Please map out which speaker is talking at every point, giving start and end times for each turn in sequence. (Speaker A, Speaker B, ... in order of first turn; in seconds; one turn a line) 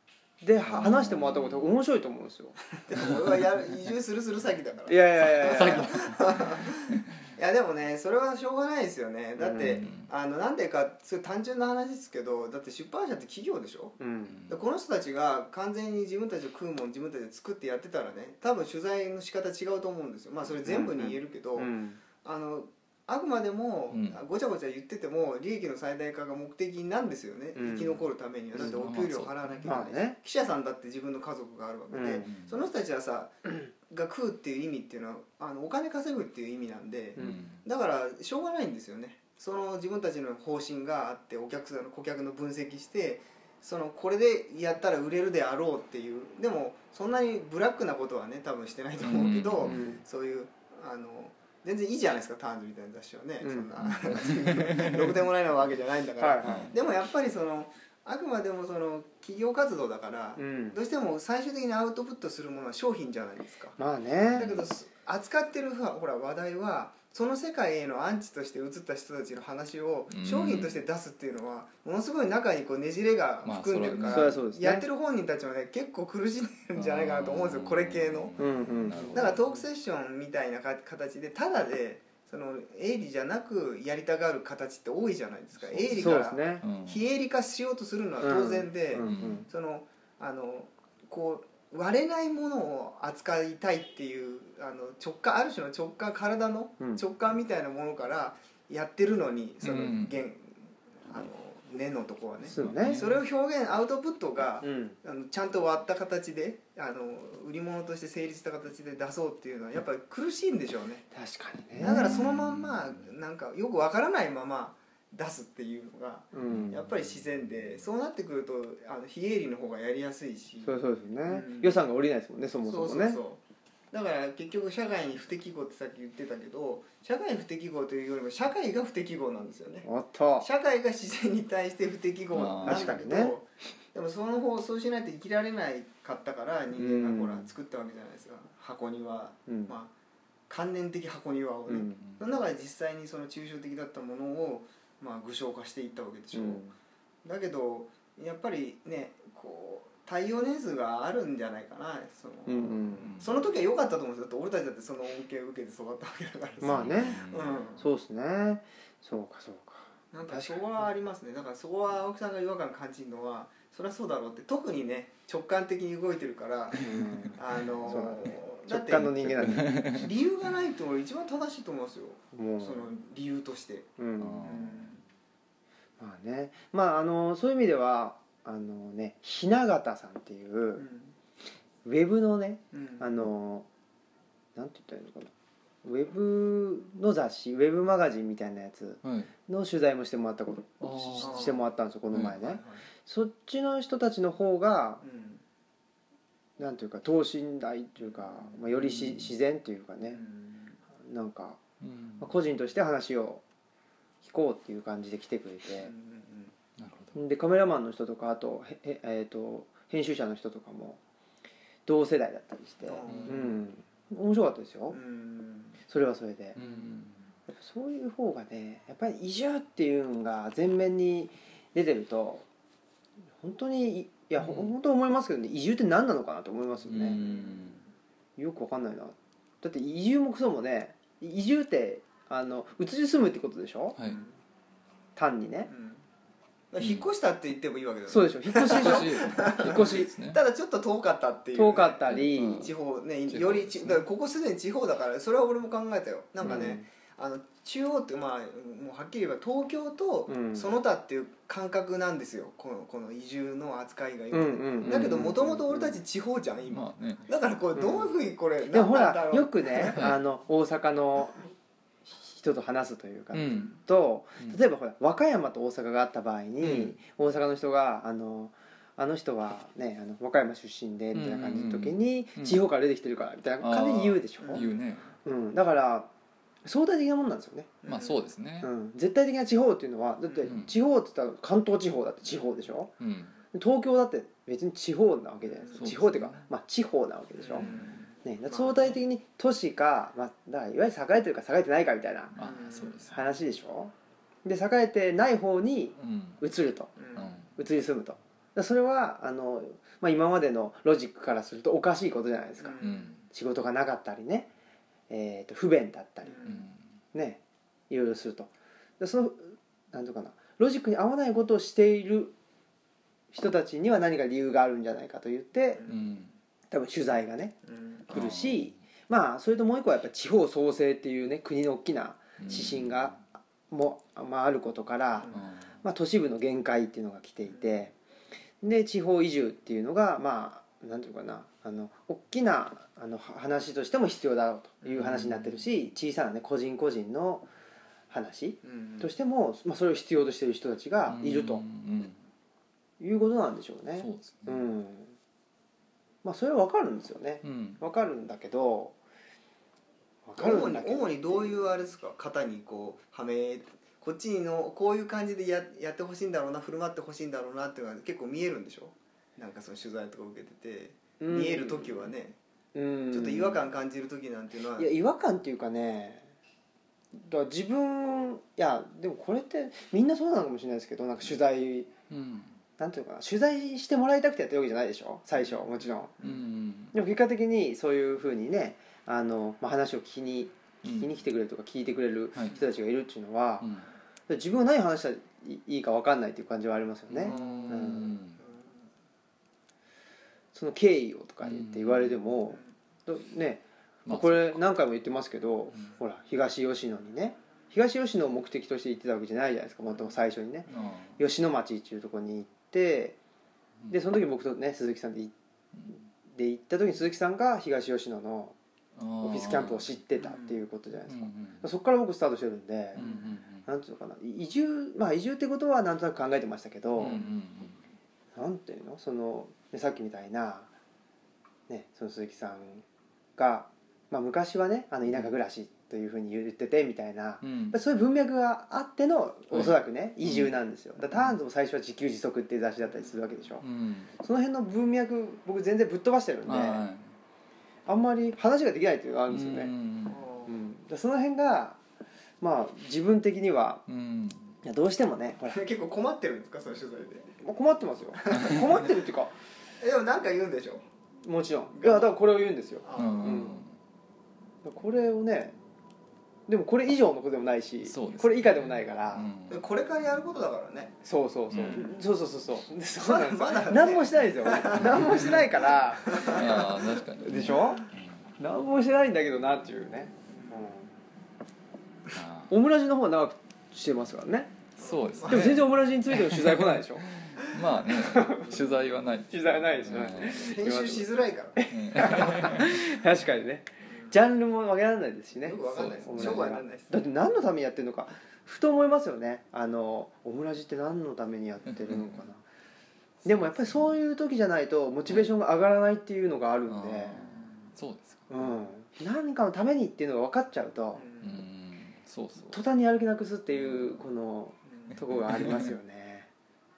Speaker A: 0.4-2.6
Speaker B: 0.6-1.8
Speaker C: 2.8-14.0
Speaker A: 4.9-6.0
Speaker B: 5.4-7.0
Speaker A: 9.4-9.8
Speaker B: 9.6-10.1
Speaker A: 14.0-14.4
Speaker B: 14.3-14.7
Speaker C: 14.5-63.8
Speaker A: 20.6-22.0
Speaker B: 23.9-24.2
Speaker A: 27.6-28.0
Speaker B: 28.6-29.8
Speaker A: 29.7-30.2
Speaker A: 31.9-32.4
Speaker B: 32.2-32.6
Speaker B: 37.2-37.6
Speaker B: 49.0-49.8
Speaker A: 49.6-50.0
Speaker A: 53.4-53.7
Speaker B: 53.9-55.1
Speaker A: 56.2-56.7
Speaker B: 56.4-56.7
Speaker A: 60.4-60.8
Speaker A: 63.8-64.6
Speaker C: 64.3-78.4
Speaker B: 70.1-70.8
Speaker B: 73.4-74.4
Speaker A: 74.1-74.9
Speaker B: 76.8-79.6
Speaker A: 78.4-79.1
Speaker C: 79.1-111.1
Speaker B: 85.6-87.0
Speaker A: 86.0-86.6
Speaker A: 88.2-89.5
Speaker B: 89.0-89.5
Speaker B: 99.6-100.2
Speaker A: 102.5-103.1
Speaker B: 102.5-103.1
Speaker A: 104.6-105.0
Speaker A: 111.1-112.2
Speaker C: 111.8-121.8
Speaker B: 111.8-112.8
Speaker A: 116.3-116.8
Speaker B: 116.5-116.8
Speaker A: 120.6-123.2
Speaker C: 122.7-123.4
Speaker C: 123.9-129.9
Speaker A: 129.8-130.5
Speaker C: 130.4-139.9
Speaker B: 132.3-133.0
Speaker A: 132.6-133.4
Speaker A: 136.8-137.5
Speaker A: 139.5-139.8
Speaker C: 140.5-146.6
Speaker A: 141.7-142.0
Speaker B: 142.0-142.3
Speaker A: 146.3-146.7
Speaker C: 147.2-157.8
Speaker A: 152.5-153.1
Speaker B: 153.0-153.4
Speaker A: 156.6-157.2
Speaker B: 156.6-157.7
Speaker A: 157.8-160.7
Speaker C: 160.1-173.9
Speaker A: 166.8-169.8
Speaker B: 169.4-170.1
Speaker A: 172.3-172.9
Speaker A: 174.0-174.6
Speaker B: 174.2-175.0
Speaker C: 174.4-175.0
Speaker A: 176.0-180.9
Speaker C: 180.8-181.2
Speaker A: 181.8-183.7
Speaker C: 182.7-183.1
Speaker A: 184.6-185.3
Speaker A: 185.8-195.0
Speaker B: 189.0-189.3
Speaker B: 190.8-191.6
Speaker C: 191.2-191.6
Speaker B: 192.1-192.4
Speaker C: 192.4-192.8
Speaker C: 195.0-195.4
Speaker A: 196.6-200.2
Speaker B: 198.7-199.3
Speaker C: 200.1-200.8
Speaker A: 201.0-201.6
Speaker B: 201.8-202.3
Speaker A: 202.2-203.4
Speaker A: 204.2-205.9
Speaker C: 205.8-206.5
Speaker B: 206.8-207.2
Speaker A: 207.2-211.0
Speaker A: 211.9-215.0
Speaker C: 212.8-213.6
Speaker B: 213.1-213.4
Speaker C: 214.9-215.8
Speaker A: 215.9-216.6
Speaker B: 216.6-217.2
Speaker A: 217.5-222.5
Speaker A: 223.4-227.2
Speaker B: 224.4-224.7
Speaker B: 226.9-227.8
Speaker C: 227.1-227.8
Speaker A: 228.4-234.0
Speaker C: 234.0-234.4
Speaker A: 235.2-235.7
Speaker C: 235.7-236.0
Speaker C: 236.7-260.1
Speaker B: 236.8-237.1
Speaker A: 238.1-240.1
Speaker B: 238.7-240.4
Speaker A: 241.6-242.7
Speaker B: 242.1-242.7
Speaker B: 243.3-244.1
Speaker A: 246.4-246.9
Speaker A: 250.3-250.8
Speaker A: 254.3-256.0
Speaker B: 254.9-255.1
Speaker B: 256.7-257.3
Speaker A: 257.8-258.1
Speaker A: 258.7-261.4
Speaker B: 259.9-260.2
Speaker A: 262.1-274.7
Speaker B: 263.3-263.8
Speaker B: 266.6-267.0
Speaker B: 271.1-272.6
Speaker B: 273.6-275.1
Speaker C: 274.4-274.9
Speaker A: 275.2-276.1
Speaker A: 276.6-277.7
Speaker C: 277.8-278.3
Speaker B: 277.9-278.7
Speaker A: 278.6-282.9
Speaker C: 280.3-280.5
Speaker B: 280.5-280.7
Speaker B: 283.0-283.4
Speaker A: 283.5-287.7
Speaker C: 285.5-285.8
Speaker B: 285.7-286.4
Speaker C: 287.4-289.0
Speaker B: 287.6-287.8
Speaker A: 288.2-292.3
Speaker B: 292.4-293.2
Speaker C: 292.4-293.0
Speaker A: 293.1-293.9
Speaker A: 294.4-296.9
Speaker B: 296.0-296.4
Speaker C: 297.0-297.4
Speaker B: 297.1-297.5
Speaker A: 297.6-304.5
Speaker C: 302.6-303.1
Speaker B: 302.8-303.2
Speaker A: 305.1-306.6
Speaker C: 306.3-306.6
Speaker B: 306.5-306.8
Speaker A: 307.1-312.3
Speaker A: 313.3-315.8
Speaker C: 315.8-316.0
Speaker B: 315.9-316.3
Speaker A: 316.7-317.6
Speaker C: 317.7-318.1
Speaker A: 318.1-323.2
Speaker B: 318.1-318.8
Speaker B: 322.4-323.2
Speaker A: 323.7-327.9
Speaker C: 325.2-325.5
Speaker B: 325.3-325.7
Speaker A: 328.6-337.5
Speaker B: 334.9-335.7
Speaker A: 338.1-341.6
Speaker C: 338.6-339.1
Speaker B: 341.1-342.2
Speaker A: 343.0-345.2
Speaker B: 344.0-344.6
Speaker A: 346.2-349.0
Speaker B: 347.4-347.8
Speaker A: 350.3-351.5
Speaker C: 350.4-362.4
Speaker A: 361.2-362.1
Speaker A: 362.8-363.6
Speaker C: 363.1-364.9
Speaker A: 364.8-366.3
Speaker A: 367.1-371.9
Speaker B: 372.1-372.6
Speaker A: 372.8-376.1
Speaker B: 376.2-376.9
Speaker A: 376.9-383.7
Speaker B: 380.8-381.2
Speaker B: 383.6-383.9
Speaker A: 384.3-388.1
Speaker B: 387.1-388.4
Speaker C: 387.2-388.8
Speaker A: 390.5-403.2
Speaker B: 391.4-392.2
Speaker B: 394.1-394.6
Speaker B: 400.7-401.2
Speaker A: 403.9-405.3
Speaker A: 405.9-408.6
Speaker B: 409.0-410.0
Speaker A: 409.2-413.1
Speaker C: 410.2-410.6
Speaker B: 411.1-411.6
Speaker B: 413.0-413.7
Speaker C: 413.0-413.3
Speaker A: 413.7-417.2
Speaker B: 417.0-417.8
Speaker A: 418.4-420.7
Speaker A: 421.7-422.9
Speaker A: 423.4-433.6
Speaker B: 427.4-427.8
Speaker B: 429.5-430.5
Speaker B: 431.1-431.4
Speaker B: 433.6-434.1
Speaker A: 434.2-436.8
Speaker B: 436.5-437.1
Speaker A: 437.9-439.7
Speaker B: 439.3-440.2
Speaker C: 440.1-440.6
Speaker A: 440.5-441.8
Speaker A: 442.4-443.8
Speaker B: 443.9-444.6
Speaker A: 444.6-445.6
Speaker C: 445.5-447.3
Speaker A: 447.4-449.3
Speaker C: 449.8-450.9
Speaker A: 451.2-453.6
Speaker C: 451.8-452.2
Speaker C: 452.8-453.6
Speaker B: 452.9-453.7
Speaker A: 454.6-455.6
Speaker A: 456.5-459.3
Speaker B: 457.9-459.6
Speaker C: 459.5-461.0
Speaker A: 461.0-467.9
Speaker B: 461.5-461.9
Speaker C: 463.0-465.4
Speaker B: 464.8-465.4
Speaker C: 466.0-466.9
Speaker B: 466.1-468.2
Speaker A: 468.4-470.9
Speaker C: 470.3-470.7
Speaker B: 472.1-472.5
Speaker A: 472.5-474.5
Speaker B: 474.8-480.7
Speaker C: 474.8-475.6
Speaker A: 475.3-477.1
Speaker A: 477.9-478.7
Speaker A: 479.3-492.4
Speaker C: 479.9-482.5
Speaker B: 481.7-483.0
Speaker C: 483.8-484.1
Speaker C: 485.4-487.0
Speaker B: 485.7-486.5
Speaker B: 491.7-492.2
Speaker B: 493.2-494.0
Speaker A: 493.2-497.3
Speaker B: 496.7-498.6
Speaker A: 498.3-501.1
Speaker C: 500.9-501.4
Speaker B: 501.2-502.6
Speaker A: 502.5-506.3
Speaker C: 504.7-505.0
Speaker B: 504.9-505.7